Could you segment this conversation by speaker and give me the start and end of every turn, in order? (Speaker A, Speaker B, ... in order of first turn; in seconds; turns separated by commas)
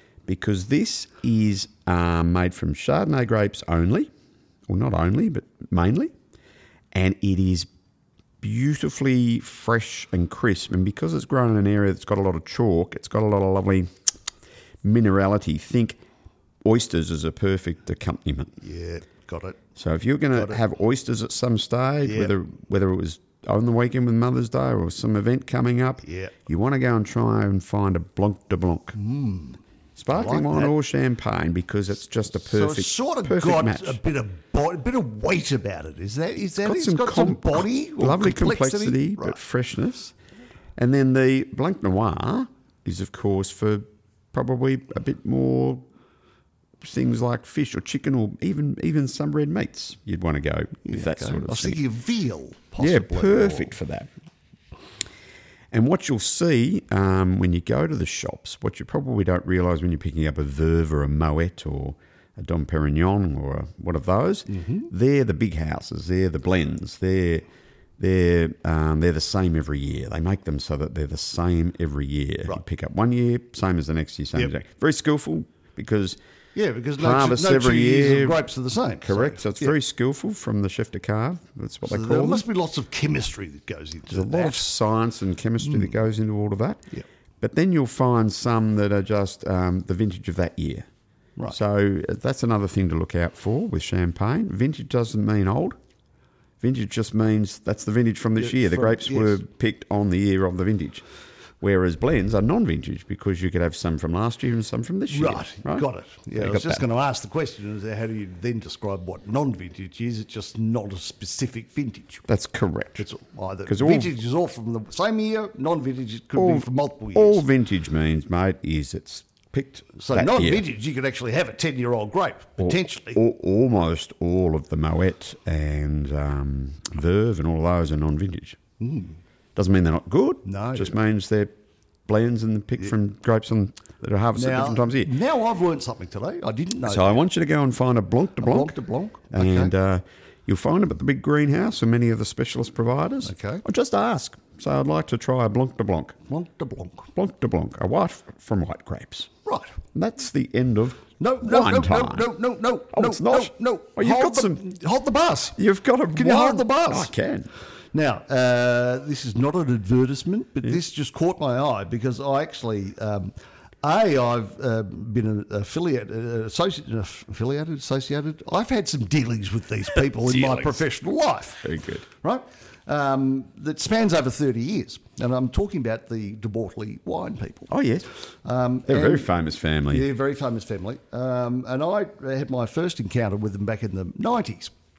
Speaker A: 0.3-4.1, Speaker A: 4.7-6.1, Speaker A: 6.9-7.7, Speaker A: 8.4-13.9, Speaker A: 14.8-16.0, Speaker A: 16.6-18.6, Speaker B: 18.6-19.6, Speaker A: 19.8-28.9, Speaker B: 20.4-20.6, Speaker B: 22.1-22.3, Speaker B: 26.1-26.3, Speaker B: 28.9-30.8, Speaker A: 30.0-34.0, Speaker B: 32.4-39.4, Speaker A: 36.6-40.1, Speaker A: 40.8-45.9, Speaker A: 46.8-51.8, Speaker B: 50.9-53.7, Speaker A: 52.8-54.1, Speaker A: 55.7-67.5, Speaker B: 64.5-64.9, Speaker A: 68.0-76.2, Speaker B: 76.5-79.8, Speaker A: 77.0-78.4, Speaker A: 79.0-82.5, Speaker B: 81.9-84.7, Speaker A: 84.1-86.8, Speaker A: 87.4-90.9, Speaker A: 91.5-95.8, Speaker A: 96.6-101.0, Speaker B: 98.4-99.4, Speaker A: 101.6-106.8, Speaker B: 105.1-112.3, Speaker A: 112.3-113.1, Speaker B: 113.0-117.4, Speaker A: 113.7-114.1, Speaker A: 116.4-120.7, Speaker B: 120.0-123.2, Speaker A: 122.6-128.6, Speaker B: 128.8-129.2, Speaker A: 129.6-131.5, Speaker B: 130.4-130.9, Speaker A: 132.1-135.1, Speaker B: 134.3-137.2, Speaker A: 136.9-138.8, Speaker B: 138.4-139.7, Speaker A: 139.3-146.2, Speaker B: 143.2-143.6, Speaker B: 146.3-147.1, Speaker A: 147.2-149.3, Speaker B: 149.5-149.8, Speaker A: 149.9-152.3, Speaker B: 151.2-155.6, Speaker A: 152.9-154.6, Speaker A: 155.6-157.5, Speaker B: 156.1-157.1, Speaker B: 157.9-177.7, Speaker A: 170.2-170.8, Speaker A: 171.6-172.1, Speaker A: 177.7-178.1, Speaker B: 178.4-179.3, Speaker A: 178.9-180.1, Speaker B: 179.9-184.7